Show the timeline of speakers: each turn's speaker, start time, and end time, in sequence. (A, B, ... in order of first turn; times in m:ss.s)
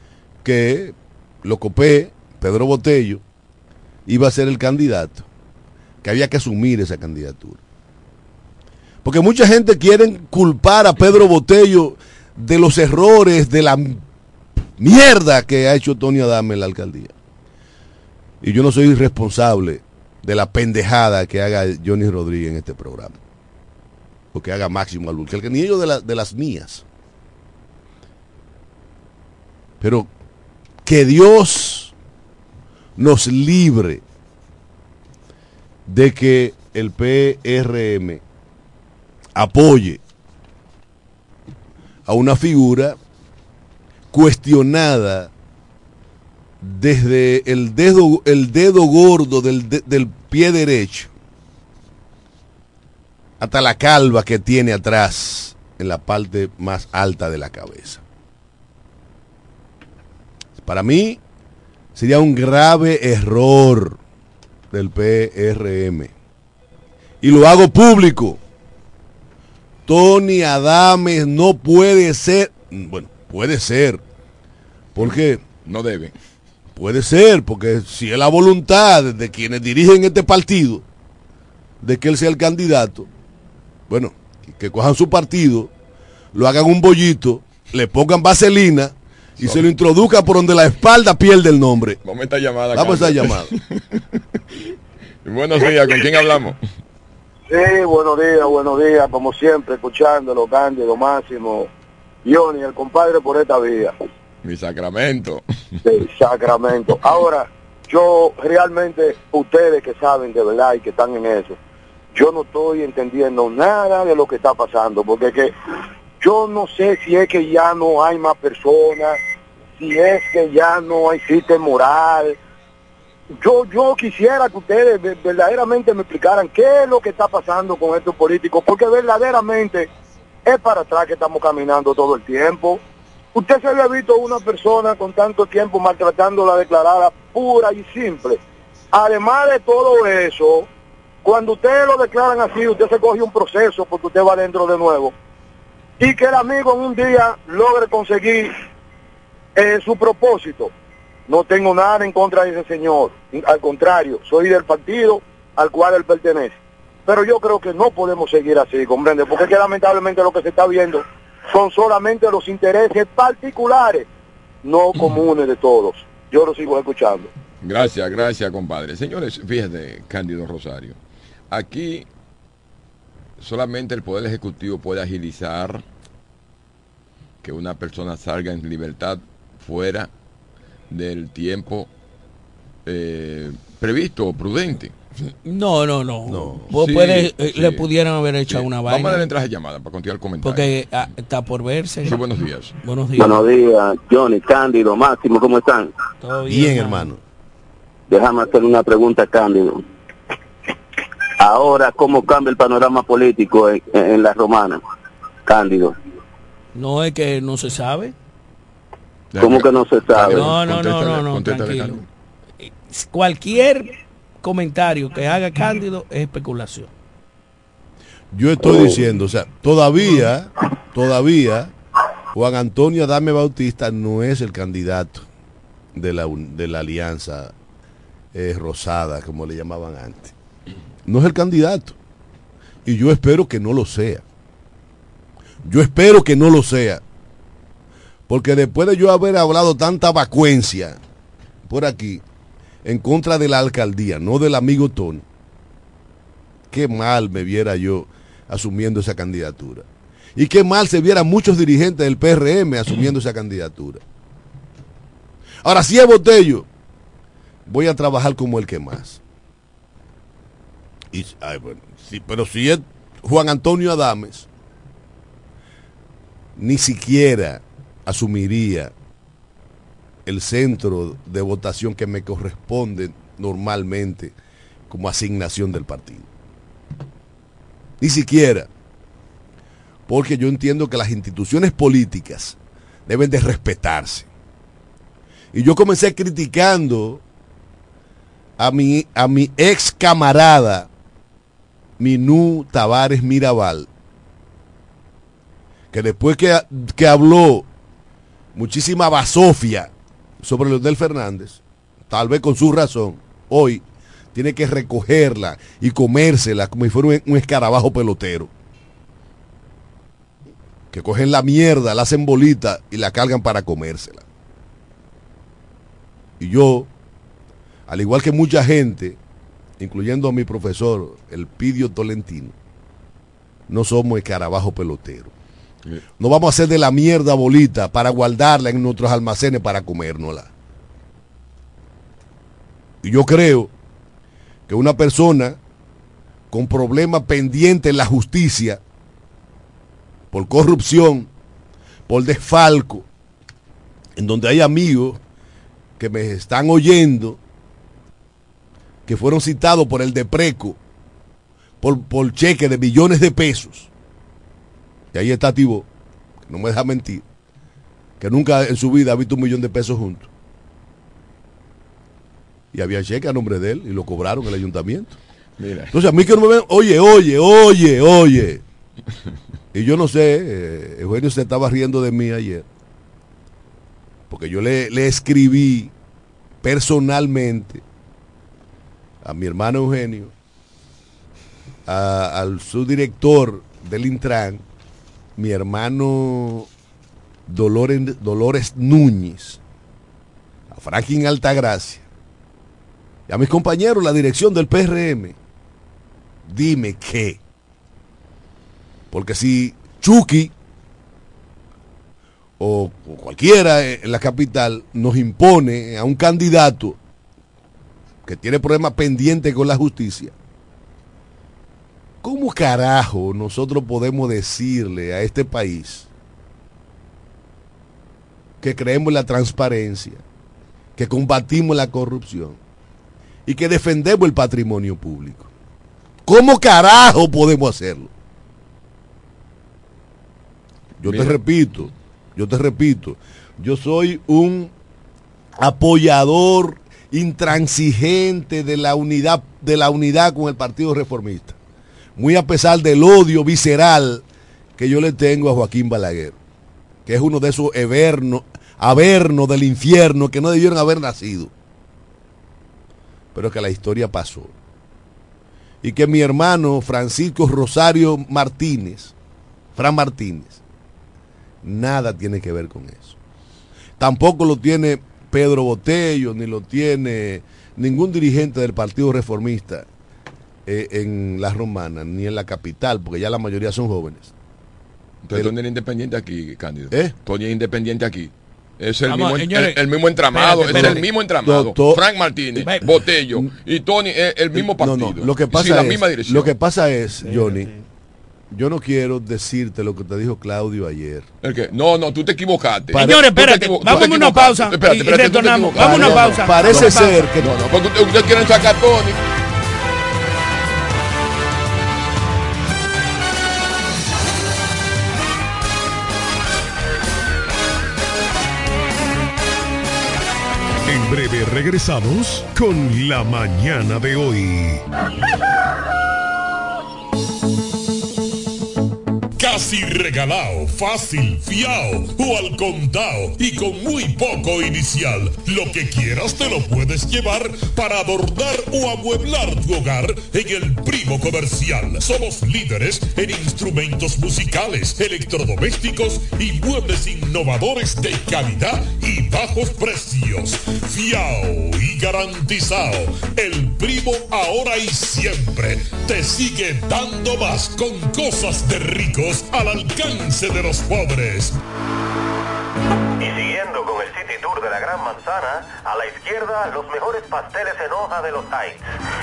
0:00.4-0:03.2 A
0:04.1-0:05.2 A
0:06.0-0:07.6 A
0:09.0-0:14.0 A
0:14.8-0:17.1 A
0:18.4-0:23.2 A
0:24.3-0:26.8 A
0:29.8-0:30.1 A
0:30.8-0:31.9 A
0:33.0-0:34.0 A
0:35.8-0:38.2 A
0:39.3-0:40.0 A
0:42.1-0:43.0 A
0:44.1-0:45.3 A
0:46.6-0:51.1 A
0:53.4-0:58.0 A
1:00.6-1:01.2 A
1:01.9-1:04.0 A
1:04.7-1:06.1 A
1:07.2-1:08.4 A
1:09.9-1:14.0 A
1:14.9-1:15.4 A
1:15.0-1:16.1 B
1:16.8-1:20.8 A
1:21.8-1:23.1 A
1:23.9-1:25.7 A
1:26.3-1:32.0 A
1:29.4-1:29.7 B
1:32.0-1:34.0 B
1:32.7-1:33.5 A
1:35.2-1:36.6 B
1:37.5-1:41.7 C
1:42.2-1:43.9 C
1:44.4-1:45.4 B
1:45.8-1:51.6 C
1:52.1-1:55.5 C
1:56.2-1:59.2 C
1:59.8-2:02.4 C
2:03.4-2:09.9 C
2:10.4-2:12.8 C
2:13.3-2:18.4 C
2:18.9-2:20.7 C
2:21.2-2:25.1 C
2:26.0-2:28.5 C
2:29.5-2:30.7 C
2:31.3-2:36.5 C
2:37.0-2:44.1 C
2:44.6-2:47.3 C
2:47.6-2:51.0 B
2:51.5-2:52.0 B
2:53.4-2:55.8 B
2:57.4-3:00.1 B
3:00.9-3:01.9 B
3:02.8-3:04.9 B
3:05.4-3:09.3 D
3:06.3-3:06.6 A
3:06.7-3:07.9 B
3:08.5-3:10.7 B
3:10.4-3:12.2 D
3:12.0-3:12.7 B
3:12.8-3:13.4 D
3:13.2-3:15.9 E
3:16.2-3:17.1 D
3:16.5-3:17.2 A
3:18.1-3:19.8 E
3:21.4-3:24.8 E
3:25.4-3:25.9 E
3:26.7-3:28.1 D
3:29.3-3:32.0 B
3:29.4-3:30.5 E
3:30.3-3:32.0 D
3:32.6-3:36.9 D
3:38.3-3:41.7 A
3:42.3-3:45.2 A
3:45.9-3:47.5 A
3:48.3-3:50.3 A
3:51.0-3:52.0 A
3:52.8-3:54.2 A
3:55.6-3:57.0 A
3:58.3-4:01.0 A
4:01.7-4:02.2 A
4:02.8-4:05.2 A
4:06.7-4:14.0 A
4:15.6-4:16.7 A
4:17.6-4:19.2 A
4:21.1-4:24.5 A
4:26.6-4:28.9 A
4:30.2-4:34.3 A
4:34.9-4:36.3 A
4:38.0-4:38.7 A
4:40.1-4:44.3 A
4:45.5-4:47.2 A
4:48.6-4:50.9 A
4:52.0-4:53.9 A
4:55.9-4:57.7 A
4:58.5-4:59.9 A
5:00.4-5:03.8 A
5:04.3-5:08.5 A
5:10.9-5:14.2 A
5:16.4-5:16.9 A
5:17.9-5:19.2 A
5:19.8-5:22.5 A
5:23.7-5:25.3 A
5:26.2-5:30.5 A
5:33.0-5:33.7 A
5:34.7-5:35.6 A
5:36.5-5:38.8 A
5:40.3-5:41.3 A
5:42.1-5:43.1 A
5:44.2-5:45.2 A
5:46.0-5:47.4 A
5:49.0-5:50.8 A
5:51.8-5:53.9 A
5:55.1-5:55.9 A
5:56.5-5:57.2 A
5:58.2-6:00.3 A
6:02.7-6:05.2 A
6:05.6-6:05.9 B
6:05.9-6:08.6 A
6:09.7-6:12.6 A
6:14.3-6:15.9 A
6:16.6-6:17.8 A
6:19.2-6:20.3 A
6:21.8-6:24.6 A
6:25.4-6:26.7 A
6:27.5-6:29.6 A
6:30.7-6:32.0 A
6:33.3-6:35.4 A
6:36.4-6:37.4 A
6:39.1-6:40.5 A
6:42.6-6:47.0 A
6:48.2-6:50.3 A
6:52.2-6:56.1 A
6:58.6-7:00.2 A
7:01.0-7:02.6 A
7:03.4-7:05.5 A
7:06.2-7:08.1 A
7:11.0-7:14.7 A
7:11.0-7:11.4 B
7:15.6-7:21.6 A
7:22.2-7:24.2 A
7:24.8-7:26.4 A
7:27.0-7:31.5 A
7:33.3-7:34.5 A
7:35.8-7:39.1 A
7:39.8-7:40.6 A
7:41.6-7:43.2 A
7:44.0-7:49.9 A
7:50.6-7:54.3 A
7:55.2-8:06.5 B
7:59.0-7:59.8 D
8:00.3-8:01.1 D
8:00.6-8:02.0 A
8:02.6-8:03.0 D
8:04.5-8:07.7 A
8:07.2-8:07.8 D
8:08.5-8:11.2 A
8:11.4-8:19.2 B
8:12.9-8:13.3 A
8:12.9-8:17.3 D
8:13.8-8:14.1 A
8:15.7-8:17.7 A
8:30.8-8:34.8 F
8:39.4-9:11.6 G
9:13.2-9:18.8 H